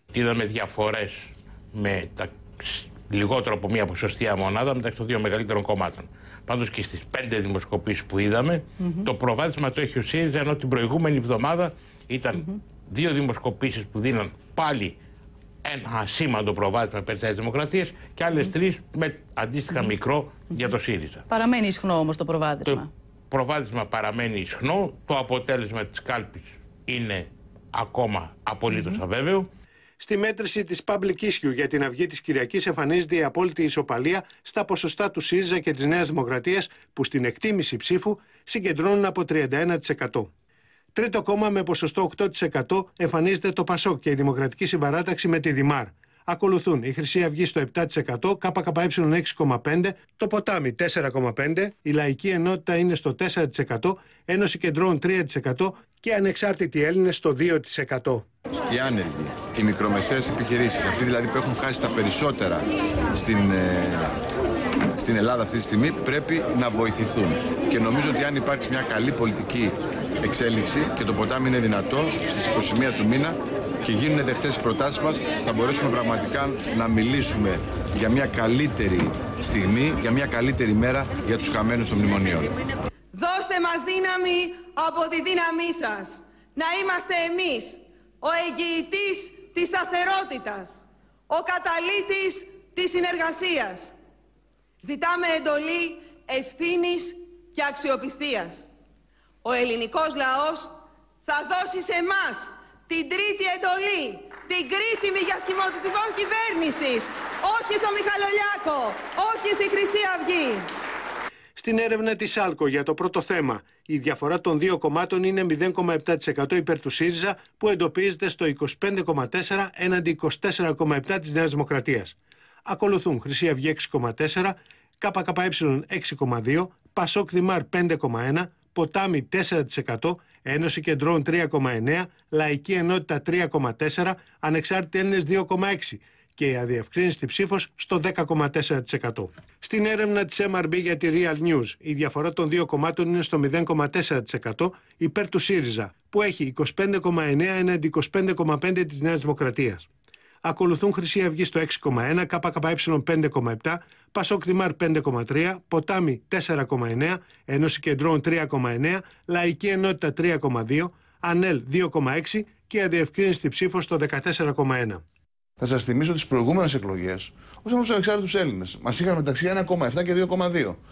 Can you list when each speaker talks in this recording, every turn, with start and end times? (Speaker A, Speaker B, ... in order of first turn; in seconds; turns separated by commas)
Speaker A: 0.1-15.0, Speaker A: 15.6-21.2, Speaker B: 21.3-22.9, Speaker A: 22.6-29.5, Speaker B: 28.7-29.0, Speaker C: 30.0-40.3, Speaker C: 40.9-58.2, Speaker D: 58.7-64.1, Speaker D: 65.0-82.5, Speaker E: 83.1-93.9, Speaker E: 94.8-98.7, Speaker E: 99.4-100.7, Speaker E: 101.2-110.7, Speaker C: 111.5-149.9, Speaker C: 150.4-165.0, Speaker F: 165.6-170.8